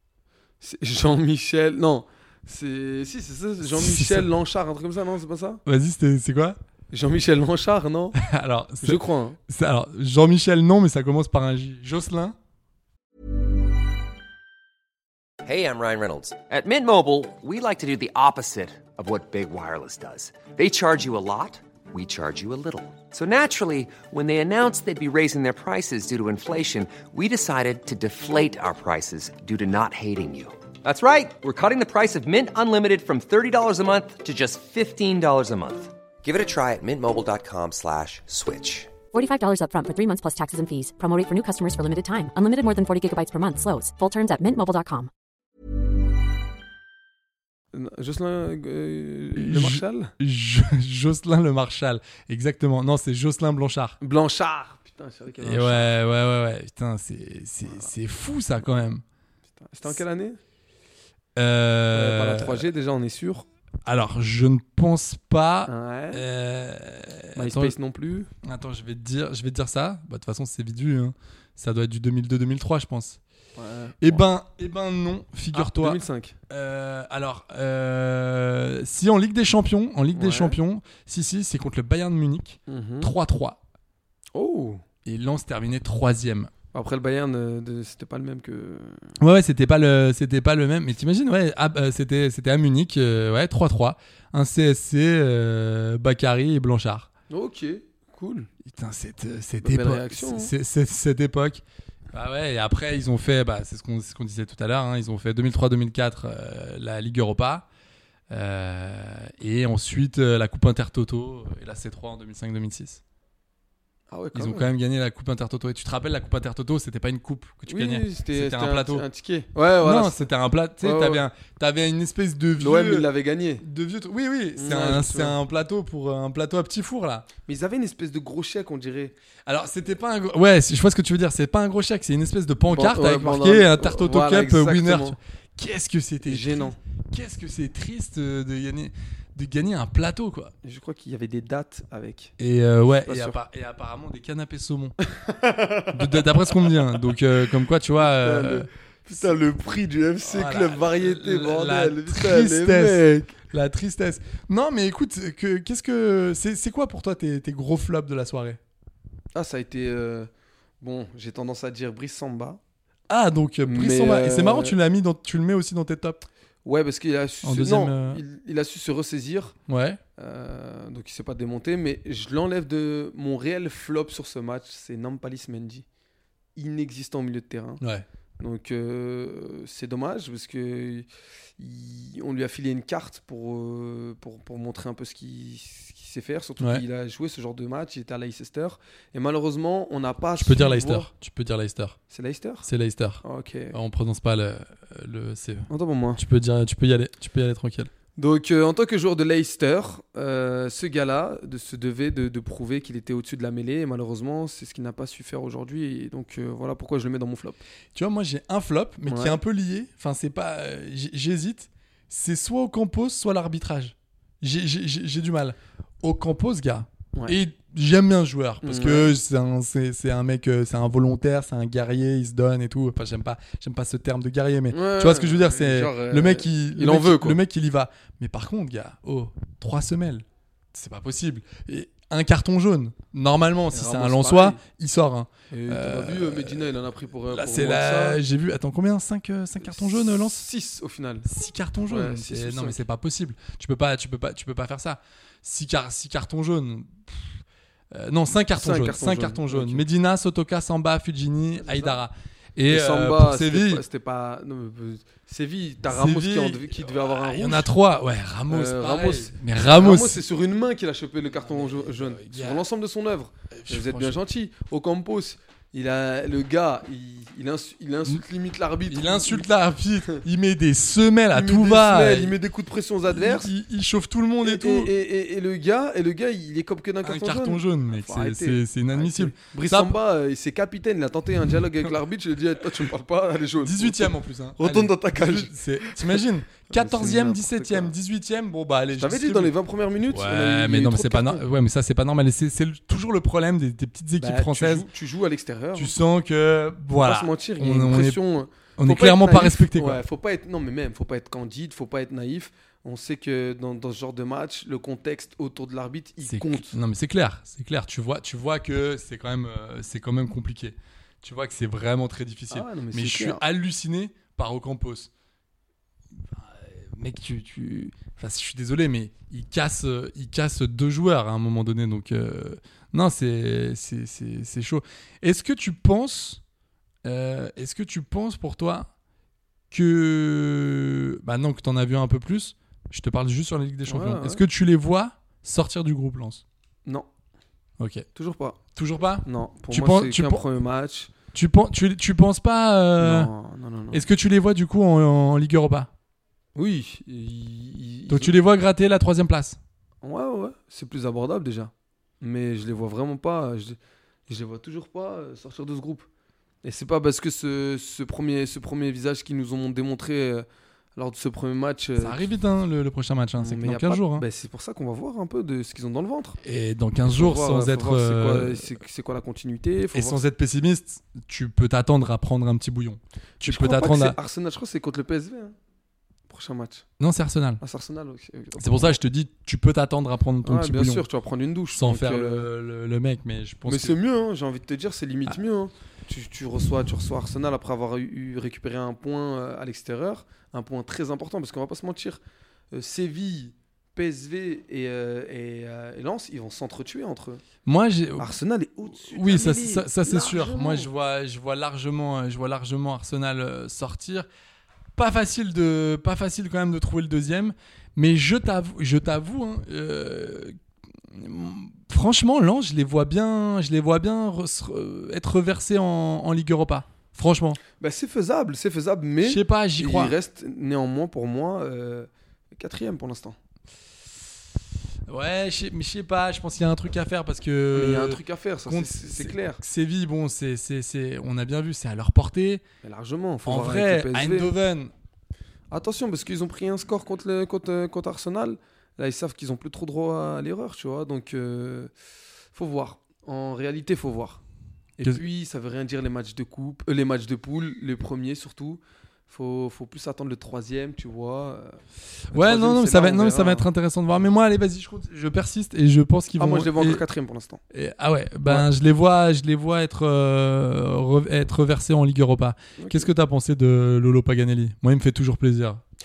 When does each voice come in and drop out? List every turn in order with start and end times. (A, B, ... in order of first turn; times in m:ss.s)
0:00.6-0:05.6 A
0:03.6-0:04.3 B
0:05.6-0:06.6 B
0:06.9-0:08.2 A
0:08.2-0:12.3 B
0:08.8-0:09.4 A
0:15.4-0:38.9 C
0:39.1-0:45.1 D
0:47.7-0:50.1 A
0:49.4-0:54.0 B
0:54.0-0:55.9 A
0:55.4-0:59.0 B
0:57.7-0:57.9 A
0:59.6-1:00.4 A
1:01.4-1:02.7 B
1:01.9-1:03.4 A
1:03.8-1:07.8 B
1:05.7-1:06.2 A
1:07.4-1:08.3 A
1:08.4-1:13.2 B
1:13.6-1:14.2 A
1:14.0-1:23.6 B
1:15.5-1:16.4 A
1:20.1-1:20.6 A
1:22.7-1:23.1 A
1:24.3-1:24.8 A
1:25.0-1:26.5 B
1:26.7-1:29.1 A
1:29.2-1:37.1 B
1:37.3-1:38.5 A
1:38.6-1:47.7 B
1:39.6-1:40.5 A
1:48.3-1:53.0 B
1:54.1-1:54.7 A
1:54.3-1:59.0 B
1:57.7-2:00.2 A
1:59.8-2:03.1 B
2:00.8-2:01.2 A
2:02.6-2:03.6 A
2:03.6-2:07.2 B
2:04.6-2:05.4 A
2:07.4-2:09.1 A
2:09.4-2:20.5 B
2:12.7-2:15.2 A
2:16.2-2:16.8 A
2:20.6-2:22.3 A
2:22.4-2:25.0 B
2:23.0-2:23.4 A
2:25.2-2:26.0 A
2:25.9-2:29.4 B
2:28.0-2:33.4 A
2:30.2-2:38.6 B
2:39.3-2:40.3 A
2:40.8-2:42.6 A
2:43.1-2:46.2 B
2:43.6-2:44.8 A
2:46.6-2:49.6 A
2:47.4-2:48.2 B
2:49.7-2:50.0 B
2:50.2-2:55.8 A
2:56.6-2:57.8 A
2:58.4-3:01.1 A
3:01.6-3:11.1 A
3:10.4-3:12.0 B
3:12.1-3:12.7 A
3:12.6-3:17.9 B
3:13.2-3:13.8 A
3:15.7-3:16.2 A
3:18.2-3:27.6 A
3:27.9-3:56.6 B
3:29.0-3:29.4 A
3:38.6-3:39.1 A
3:44.7-3:47.4 A
3:53.7-3:54.6 A
3:55.5-3:58.2 A
3:57.3-4:00.4 B
3:59.6-4:01.2 A
4:01.2-4:07.4 B
4:01.9-4:02.8 A
4:07.9-4:13.8 B
4:08.6-4:09.8 A
4:11.6-4:12.0 A
4:12.7-4:17.7 A
4:15.9-4:20.2 B
4:18.5-4:29.5 A
4:21.4-4:22.6 B
4:23.5-4:24.2 B
4:28.9-4:32.4 B
4:31.3-4:33.5 A
4:33.1-4:34.9 B
4:34.4-4:46.2 A
4:37.0-4:40.0 B
4:43.6-4:49.5 B
4:46.7-4:47.9 A
4:48.9-4:51.4 A
4:50.1-4:54.9 B
4:54.2-4:55.9 A
4:55.7-4:58.2 B
4:57.0-5:06.8 A
4:58.8-5:00.0 B
5:06.2-5:15.1 B
5:12.5-5:13.4 A
5:16.1-5:26.4 B
5:27.0-5:28.9 B
5:29.7-5:36.4 B
5:33.9-5:34.4 A
5:37.8-5:38.1 B
5:38.1-5:38.6 A
5:38.7-5:40.4 B
5:39.2-5:41.1 A
5:41.3-5:43.3 B
5:43.0-5:44.0 A
5:43.9-5:45.9 B
5:46.5-5:48.3 A
5:48.1-5:49.6 B
5:50.0-5:56.1 A
5:56.6-6:02.3 A
6:02.0-6:04.2 B
6:03.4-6:06.4 A
6:06.4-6:08.7 B
6:07.1-6:10.2 A
6:09.9-6:14.2 B
6:13.4-6:15.5 A
6:16.3-6:16.8 A
6:17.0-6:17.6 B
6:17.6-6:19.0 A
6:18.6-6:21.1 B
6:20.4-6:22.5 A
6:21.7-6:24.0 B
6:23.7-6:32.2 A
6:32.7-6:37.4 A
6:37.6-6:38.3 B
6:38.2-6:40.9 A
6:39.0-6:44.3 B
6:45.0-6:50.6 B
6:51.1-6:57.6 B
6:57.8-7:03.4 A
6:59.2-7:00.2 B
7:05.1-7:12.6 B
7:07.7-7:09.6 A
7:12.8-7:14.5 A
7:13.4-7:14.9 B
7:15.7-7:21.9 A
7:22.5-7:24.4 A
7:25.0-7:33.7 A
7:32.3-7:37.0 B
7:36.4-7:37.6 A
7:37.7-7:45.8 B
7:42.8-7:43.1 A